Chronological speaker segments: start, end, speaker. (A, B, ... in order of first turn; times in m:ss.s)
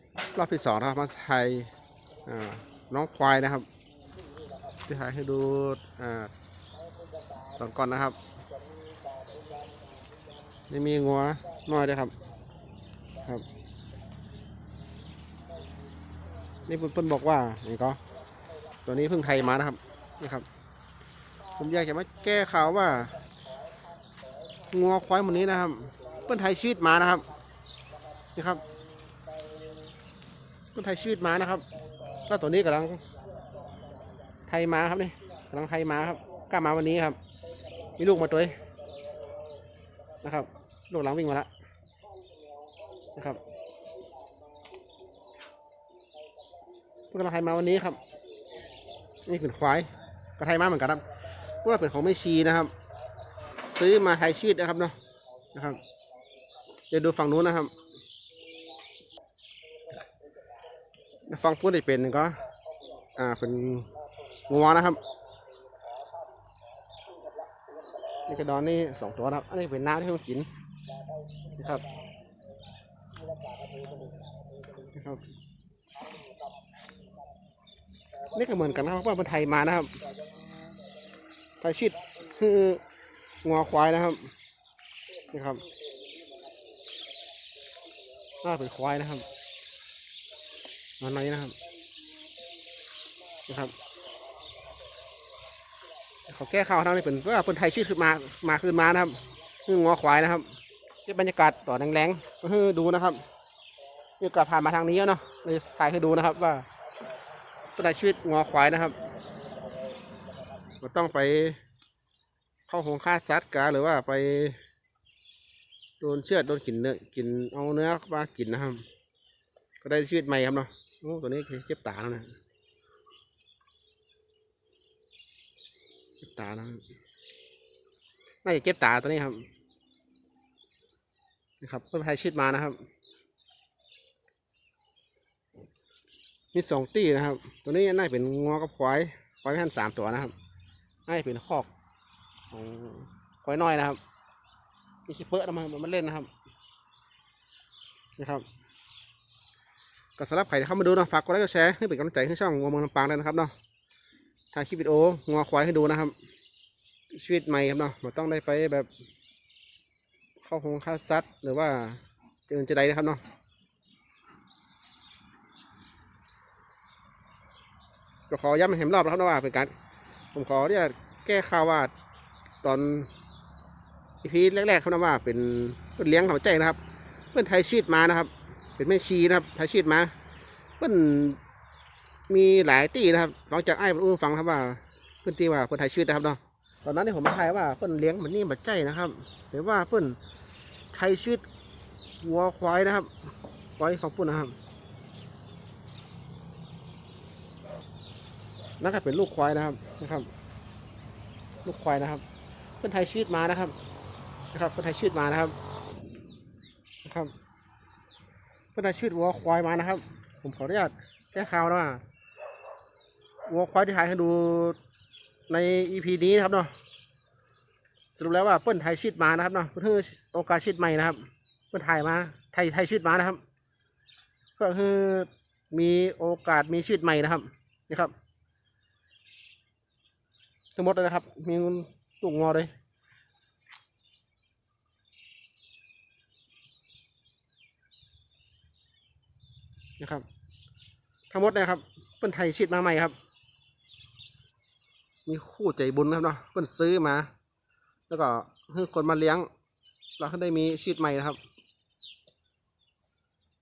0:00.3-0:01.7 A
0:02.2-0:03.7 A
0:04.8-0:06.3 A
0:07.6-0:08.2 A
0:10.7-0:12.2 A
0:16.6-0:18.0 A
0:18.8-0:20.4 A
0:21.6-0:23.2 A
0:24.7-0:27.3 A
0:28.4-0:28.6 A
0:30.7-0:31.6 A
0:32.3-0:33.0 A
0:34.5-0:37.2 A
0:38.0-0:38.6 A
0:40.2-0:41.5 A
0:43.1-0:43.4 A
0:47.1-0:48.0 A
0:49.2-0:51.0 A
0:51.6-0:52.7 A
0:53.7-0:55.0 A
0:55.5-0:55.8 A
0:56.9-0:57.7 A
1:01.3-1:02.4 A
1:03.1-1:03.9 A
1:04.5-1:05.0 A
1:08.2-1:10.5 A
1:11.6-1:11.9 A
1:14.9-1:15.2 A
1:18.3-1:20.0 A
1:21.6-1:22.8 A
1:23.4-1:24.3 A
1:25.3-1:25.6 A
1:28.4-1:29.2 A
1:31.0-1:31.6 A
1:33.5-1:33.7 A
1:36.3-1:40.5 A
1:41.0-1:43.2 A
1:44.2-1:46.7 A
1:47.8-1:49.0 A
1:50.8-1:51.6 A
1:52.7-1:54.6 A
1:56.0-1:58.8 A
1:59.8-2:02.3 A
2:06.2-2:06.8 A
2:08.4-2:09.5 A
2:11.6-2:12.8 A
2:16.5-2:20.3 A
2:21.0-2:21.7 A
2:22.5-2:24.0 A
2:25.1-2:26.3 A
2:28.2-2:28.4 A
2:30.2-2:33.5 A
2:34.5-2:36.1 A
2:37.1-2:38.9 A
2:40.4-2:43.2 A
2:48.3-2:49.7 A
2:50.3-2:51.9 A
2:52.6-2:53.1 A
2:54.2-2:56.8 A
2:57.3-3:00.1 A
3:00.8-3:01.4 A
3:02.3-3:10.2 A
3:10.9-3:11.4 A
3:12.2-3:13.2 A
3:13.8-3:14.6 A
3:18.8-3:20.3 A
3:21.6-3:22.2 A
3:22.8-3:23.7 A
3:24.5-3:25.5 A
3:27.0-3:27.3 A
3:28.7-3:32.0 A
3:33.4-3:34.8 A
3:35.5-3:36.7 A
3:38.1-3:43.4 A
3:44.6-3:48.1 A
3:50.7-3:52.7 A
4:00.0-4:00.2 A
4:01.3-4:03.1 A
4:05.2-4:07.3 A
4:08.1-4:09.5 A
4:10.2-4:11.4 A